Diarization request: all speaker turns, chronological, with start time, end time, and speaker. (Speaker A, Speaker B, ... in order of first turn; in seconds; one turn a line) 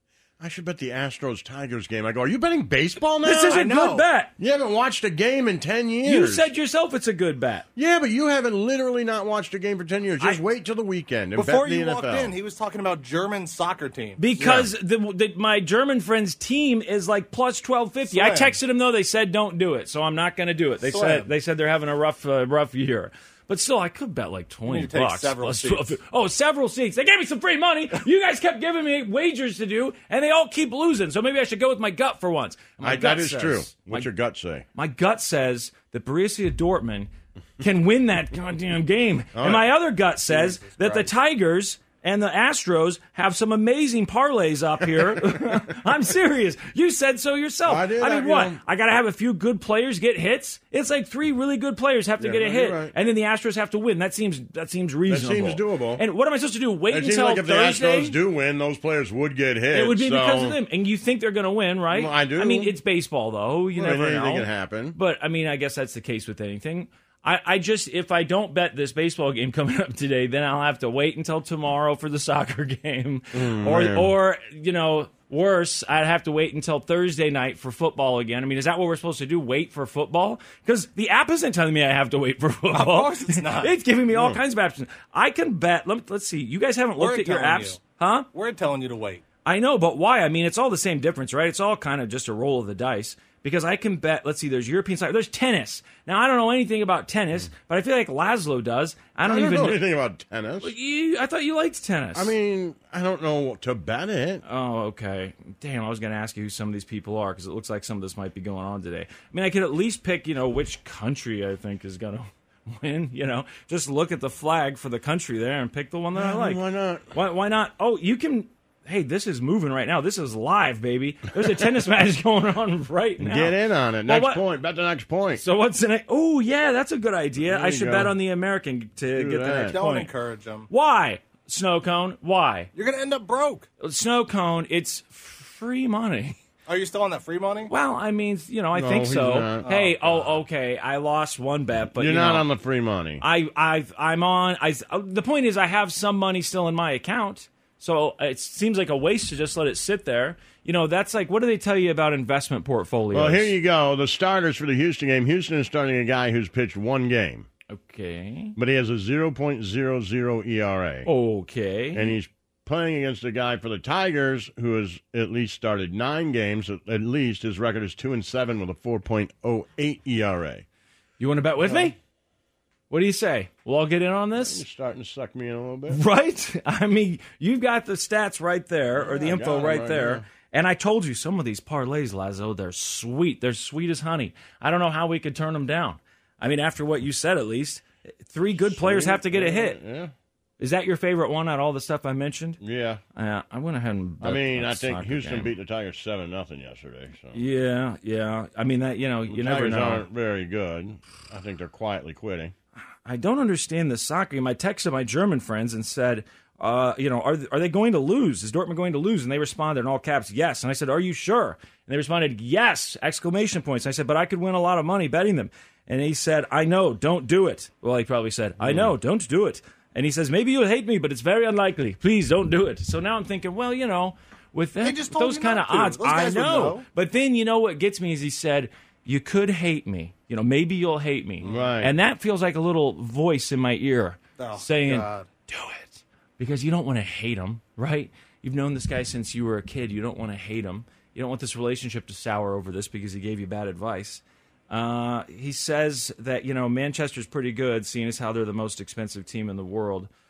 Speaker A: 0.4-3.7
Speaker B: 3.2-4.3
Speaker C: 3.5-4.1
Speaker A: 4.4-6.5
Speaker B: 6.0-7.7
Speaker A: 7.8-12.4
Speaker C: 11.3-14.2
Speaker B: 14.2-34.1
Speaker A: 14.4-14.7
Speaker C: 18.1-18.6
Speaker C: 20.8-21.3
Speaker C: 24.7-25.9
Speaker A: 32.8-34.7
Speaker B: 34.7-58.2
Speaker A: 39.3-39.8
Speaker A: 47.6-48.6
Speaker A: 52.2-53.0
Speaker A: 55.1-56.0
Speaker A: 56.9-60.6
Speaker B: 59.7-88.3
Speaker A: 61.9-62.8
Speaker A: 63.8-65.0
Speaker A: 73.3-74.2
Speaker C: 82.7-84.3
Speaker C: 87.0-87.8
Speaker C: 88.3-89.2
Speaker B: 89.5-99.8
Speaker A: 99.2-100.7
Speaker B: 100.6-102.3
Speaker A: 102.1-104.4
Speaker B: 104.5-124.4
Speaker A: 116.2-117.1
Speaker A: 123.2-125.4
Speaker B: 125.4-130.1
Speaker A: 127.4-128.2
Speaker A: 129.1-129.8
Speaker C: 129.7-130.7
Speaker B: 130.7-132.7
Speaker C: 132.7-133.7
Speaker B: 133.8-136.4
Speaker C: 136.7-137.7
Speaker B: 137.7-142.5
Speaker A: 138.7-139.7
Speaker C: 139.6-139.9
Speaker A: 142.0-143.2
Speaker B: 143.2-153.6
Speaker A: 153.1-157.5
Speaker B: 157.7-158.6
Speaker A: 158.6-161.1
Speaker B: 161.1-162.2
Speaker A: 161.9-170.7
Speaker B: 171.2-172.0
Speaker A: 171.6-171.9
Speaker B: 172.9-174.6
Speaker A: 174.4-176.0
Speaker B: 175.9-189.8
Speaker A: 178.9-180.2
Speaker A: 188.6-190.1
Speaker B: 190.6-192.6
Speaker A: 192.6-193.0
Speaker B: 193.2-195.6
Speaker A: 194.2-197.4
Speaker B: 197.3-200.1
Speaker A: 199.3-202.5
Speaker B: 203.1-250.1
Speaker A: 218.6-218.9
Speaker C: 224.8-226.8
Speaker A: 231.4-231.9
Speaker C: 234.4-235.3